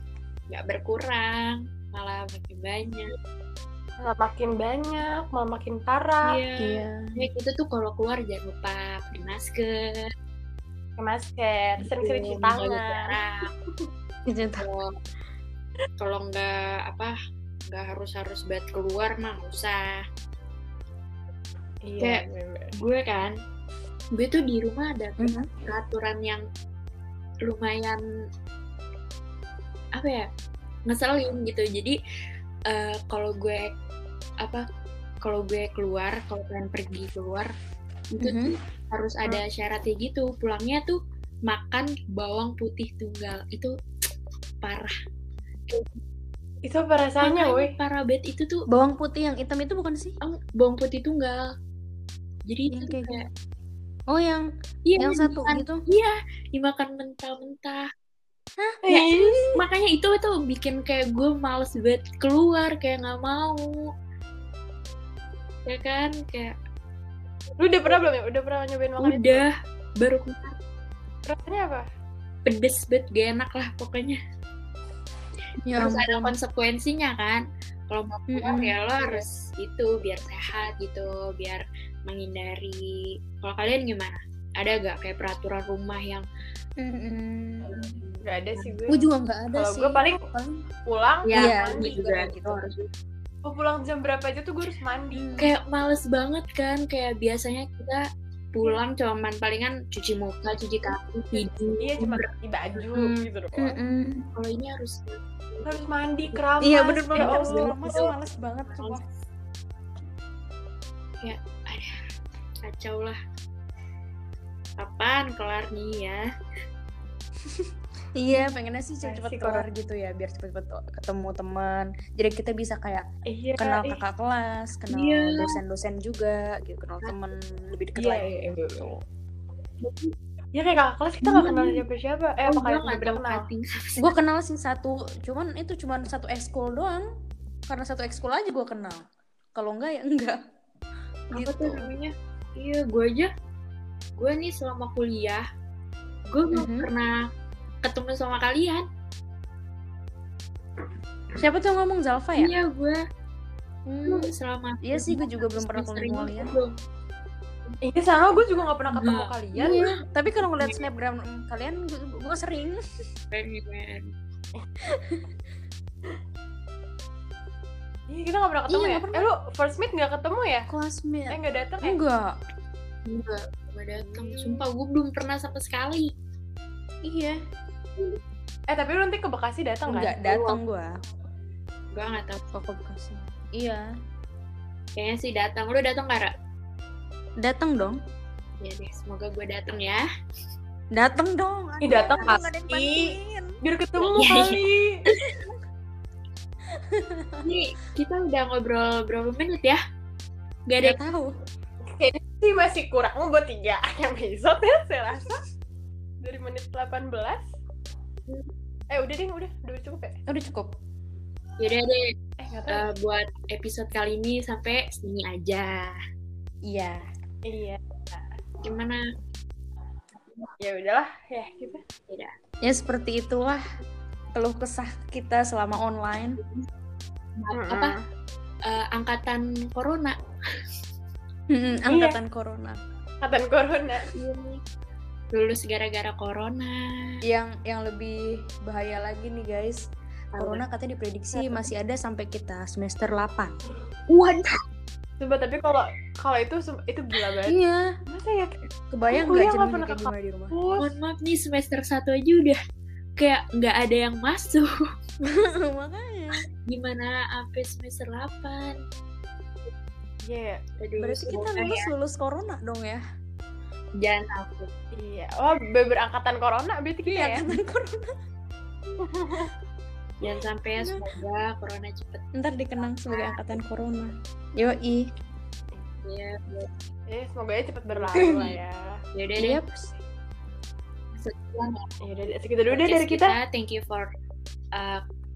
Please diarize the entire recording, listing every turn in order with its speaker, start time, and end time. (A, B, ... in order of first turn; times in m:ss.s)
0:00.5-0:03.1 A
0:04.0-0:06.4 B
0:06.2-0:10.0 A
0:06.6-0:07.1 C
0:11.0-0:13.1 B
0:12.0-0:13.3 A
0:14.3-0:14.6 C
0:14.6-0:14.9 A
0:16.0-0:17.1 A
0:17.7-0:20.0 A
0:21.8-0:22.7 B
0:22.8-0:23.3 A
0:24.1-0:26.4 A
0:25.2-0:25.5 C
0:27.4-0:28.0 A
0:30.0-0:30.3 A
0:30.9-0:32.0 A
0:32.7-0:33.6 A
0:35.2-0:37.5 A
0:38.1-0:41.0 A
0:38.2-0:38.5 C
0:41.5-0:43.7 A
0:44.6-0:44.9 A
0:45.7-0:46.0 A
0:46.7-0:47.7 B
0:47.2-0:48.6 A
0:48.7-0:50.2 C
0:50.2-0:51.4 A
0:52.5-0:53.2 A
0:52.7-0:53.2 C
0:54.1-0:54.5 C
0:54.9-0:57.8 A
0:55.0-0:55.8 C
0:58.6-0:59.5 C
0:58.8-0:59.6 B
0:58.9-1:03.6 A
1:05.7-1:06.6 A
1:07.6-1:09.4 B
1:09.0-1:10.5 A
1:11.3-1:11.9 B
1:12.5-1:14.2 A
1:15.6-1:16.3 C
1:15.8-1:26.2 A
1:18.3-1:18.7 C
1:26.8-1:27.7 C
1:27.7-1:28.7 A
1:28.2-1:29.0 B
1:28.9-1:30.6 C
1:29.6-1:30.2 B
1:30.9-1:32.0 B
1:31.3-1:32.8 A
1:31.4-1:32.6 C
1:33.4-1:35.3 B
1:35.2-1:35.5 C
1:35.4-1:38.0 A
1:38.5-1:42.2 A
1:41.3-1:43.8 B
1:43.0-1:44.2 C
1:44.4-1:46.4 A
1:45.6-1:48.1 B
1:46.6-1:49.0 C
1:47.2-1:48.1 A
1:48.7-1:49.1 A
1:51.2-1:51.9 A
1:52.6-1:53.2 A
1:54.8-1:56.2 A
1:58.2-2:03.1 C
1:59.0-1:59.7 B
2:03.3-2:04.0 B
2:03.6-2:08.9 C
2:04.9-2:05.5 A
2:08.0-2:08.9 B
2:09.8-2:10.1 A
2:10.5-2:13.4 B
2:11.2-2:11.8 A
2:12.5-2:14.1 A
2:14.0-2:17.0 C
2:17.7-2:20.4 C
2:21.3-2:21.9 C
2:21.3-2:23.3 A
2:24.2-2:25.4 A
2:26.3-2:27.1 A
2:26.5-2:26.9 C
2:27.9-2:28.8 A
2:31.4-2:32.5 C
2:32.4-2:33.0 A
2:33.9-2:34.3 C
2:34.1-2:36.7 A
2:34.8-2:36.5 C
2:37.9-2:39.8 B
2:38.9-2:39.8 A
2:39.6-2:42.8 C
2:40.6-2:40.8 A
2:43.3-2:44.0 A
2:44.9-2:45.2 C
2:48.1-2:50.7 B
2:48.7-2:49.2 C
2:50.7-2:52.3 C
2:51.3-2:52.0 B
2:53.1-2:56.1 A
2:54.1-2:54.5 B
2:57.0-2:57.4 C
2:58.7-3:00.6 B
2:59.9-3:00.9 C
3:01.9-3:02.4 A
3:02.5-3:03.9 C
3:05.0-3:06.3 A
3:07.4-3:08.0 C
3:08.6-3:10.0 A
3:10.9-3:13.6 C
3:11.8-3:15.0 B
3:14.0-3:14.6 A
3:16.9-3:17.5 C
3:17.4-3:19.8 A
3:20.7-3:21.0 A
3:20.8-3:21.3 C
3:22.0-3:25.4 B
3:26.2-3:27.4 B
3:28.9-3:30.2 B
3:30.3-3:30.7 C
3:31.6-3:32.0 A
3:32.4-3:32.9 B
3:32.7-3:35.9 A
3:36.6-3:37.0 C
3:37.5-3:38.3 B
3:38.6-3:39.0 A
3:40.2-3:40.5 A
3:40.6-3:41.8 B
3:42.6-3:43.6 C
3:44.4-3:46.4 C
3:47.4-3:48.0 A
3:47.5-3:48.0 B
3:48.7-3:50.2 A
3:51.5-3:52.8 C
3:51.9-3:52.2 B
3:53.2-3:54.0 B
3:54.2-3:54.6 A
3:55.3-3:57.1 A
3:57.2-3:59.8 C
4:00.3-4:00.6 A
4:00.4-4:03.6 C
4:01.3-4:01.6 B
4:04.1-4:04.6 A
4:05.2-4:07.6 B
4:07.5-4:07.9 C
4:08.1-4:10.9 B
4:08.9-4:10.5 C
4:10.8-4:12.6 A
4:13.2-4:14.7 A
4:15.3-4:16.4 C
4:16.7-4:18.8 A
4:20.3-4:20.6 B
4:20.8-4:21.9 A
4:21.0-4:23.0 C
4:24.0-4:24.7 A
4:25.0-4:27.4 B
4:27.1-4:28.1 C
4:29.1-4:29.5 B
4:30.2-4:33.4 A
4:32.4-4:35.0 C
4:36.0-4:36.7 A
4:37.1-4:39.0 B
4:37.9-4:38.4 A
4:38.2-4:38.5 C
4:39.2-4:39.6 A
4:39.4-4:39.9 C
4:41.2-4:41.8 A
4:42.0-4:43.4 B
4:42.7-4:44.1 A